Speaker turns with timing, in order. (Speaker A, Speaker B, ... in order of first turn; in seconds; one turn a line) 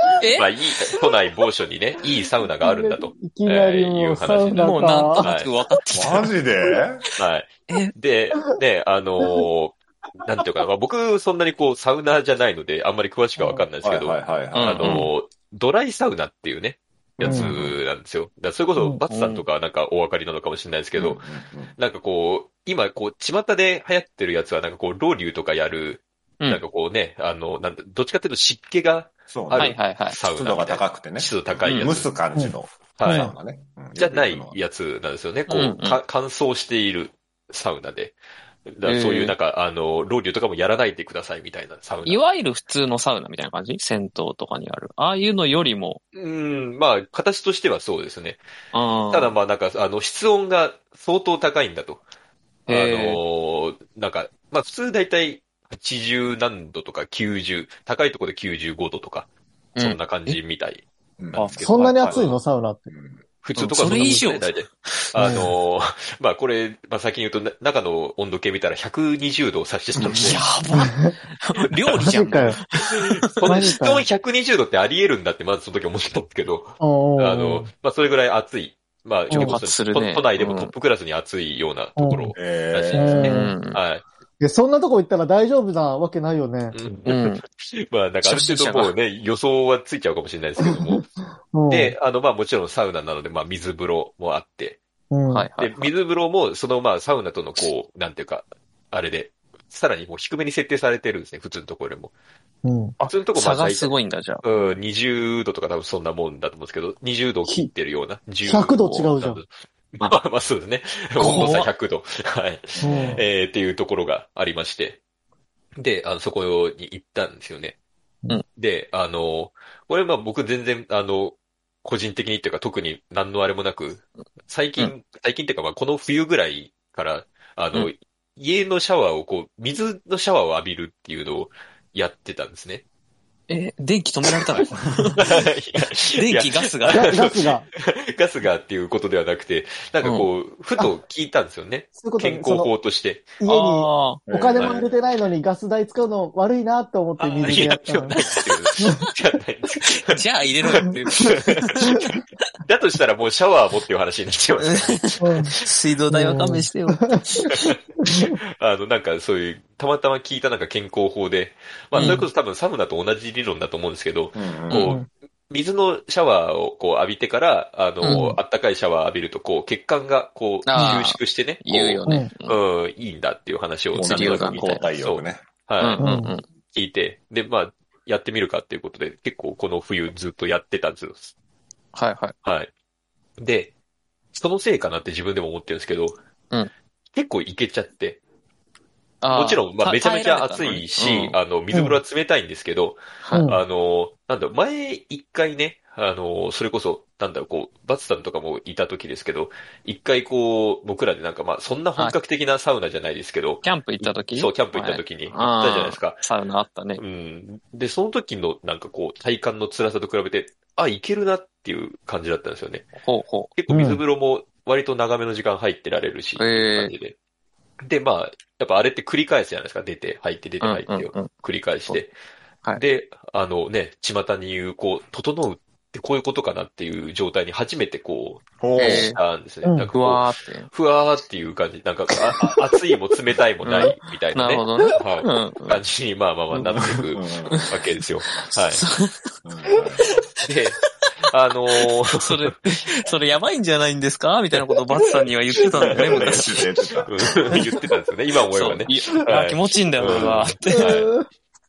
Speaker A: 0.2-0.5
Speaker B: 0.3-5.5
Speaker C: 2.6-5.3
Speaker A: 4.6-6.3
Speaker D: 5.9-7.0
Speaker B: 7.2-21.2
Speaker A: 7.7-7.9
Speaker D: 13.8-14.9
Speaker A: 14.5-15.1
Speaker D: 17.2-17.8
Speaker C: 17.2-17.5
Speaker C: 18.8-19.0
Speaker A: 19.1-19.4
Speaker D: 20.9-21.7
Speaker B: 21.8-32.1
Speaker D: 29.3-34.6
Speaker A: 29.6-30.2
Speaker A: 31.6-31.9
Speaker C: 32.4-33.3
Speaker B: 33.0-33.3
Speaker B: 34.0-38.1
Speaker A: 35.5-36.0
Speaker B: 38.7-42.2
Speaker A: 38.8-39.3
Speaker A: 42.0-46.0
Speaker B: 46.1-48.4
Speaker A: 48.7-49.3
Speaker B: 49.1-52.0
Speaker A: 52.7-53.2
Speaker B: 52.7-62.4
Speaker A: 59.8-60.4
Speaker D: 61.2-62.2
Speaker C: 61.6-62.9
Speaker D: 62.9-63.2
Speaker B: 63.4-70.4
Speaker A: 63.6-65.4
Speaker C: 65.2-65.5
Speaker D: 69.9-70.4
Speaker A: 70.1-73.5
Speaker C: 70.7-71.1
Speaker B: 71.7-72.1
Speaker C: 72.1-72.6
Speaker B: 72.8-84.0
Speaker C: 73.5-74.0
Speaker C: 76.8-77.7
Speaker C: 79.3-79.6
Speaker A: 79.3-80.7
Speaker C: 82.0-82.3
Speaker D: 82.3-83.2
Speaker A: 82.9-83.8
Speaker C: 82.9-83.5
Speaker C: 84.4-86.8
Speaker B: 86.7-91.0
Speaker A: 87.0-87.4
Speaker A: 88.2-88.9
Speaker C: 91.5-92.0
Speaker B: 91.7-94.8
Speaker C: 95.1-95.5
Speaker A: 95.3-95.9
Speaker B: 95.6-102.1
Speaker C: 102.6-103.0
Speaker A: 103.0-104.4
Speaker B: 103.0-115.0
Speaker C: 108.4-109.4
Speaker A: 108.8-109.0
Speaker A: 111.2-111.7
Speaker C: 112.8-113.2
Speaker D: 112.8-113.2
Speaker B: 115.8-117.8
Speaker B: 118.5-132.8
Speaker A: 133.5-135.3
Speaker B: 135.2-143.3
Speaker A: 136.1-137.2
Speaker C: 136.9-137.7
Speaker A: 140.0-140.3
Speaker C: 142.0-142.7
Speaker C: 143.4-148.2
Speaker A: 143.4-144.2
Speaker D: 144.2-145.0
Speaker B: 144.5-144.8
Speaker B: 147.2-150.2
Speaker A: 150.0-151.9
Speaker B: 150.7-152.0
Speaker B: 152.6-155.7
Speaker A: 154.6-157.7
Speaker C: 155.2-155.5
Speaker C: 156.1-157.2
Speaker B: 157.5-176.0
Speaker C: 158.0-158.3
Speaker A: 161.9-162.2
Speaker C: 161.9-162.2
Speaker D: 164.3-164.9
Speaker A: 164.7-165.0
Speaker A: 168.0-168.4
Speaker C: 168.0-168.4
Speaker A: 170.7-172.5
Speaker D: 173.9-175.4
Speaker A: 174.0-174.8
Speaker A: 175.8-176.4
Speaker C: 176.0-176.3
Speaker B: 176.7-181.3
Speaker A: 181.9-182.3
Speaker B: 182.4-182.7
Speaker B: 183.4-183.7
Speaker B: 184.3-186.2
Speaker B: 187.1-188.2
Speaker A: 189.2-191.4
Speaker B: 189.3-206.2
Speaker C: 191.7-192.0
Speaker A: 193.2-193.5
Speaker C: 193.3-193.6
Speaker A: 203.6-207.0
Speaker B: 207.0-212.9
Speaker A: 213.0-213.5
Speaker B: 213.5-217.1
Speaker C: 213.7-214.0
Speaker A: 216.4-216.9
Speaker B: 217.8-222.1
Speaker A: 220.6-221.3
Speaker B: 222.7-238.8
Speaker D: 228.6-229.1
Speaker A: 228.8-229.2
Speaker C: 229.6-229.9
Speaker A: 229.9-230.7
Speaker A: 233.7-235.8
Speaker D: 236.5-237.7
Speaker A: 238.3-239.3
Speaker D: 239.4-240.0
Speaker B: 240.4-242.7
Speaker A: 242.2-246.7
Speaker D: 245.9-247.6
Speaker B: 245.9-246.5
Speaker B: 247.0-251.1
Speaker A: 248.5-251.1
Speaker D: 250.0-250.5
Speaker C: 250.7-251.2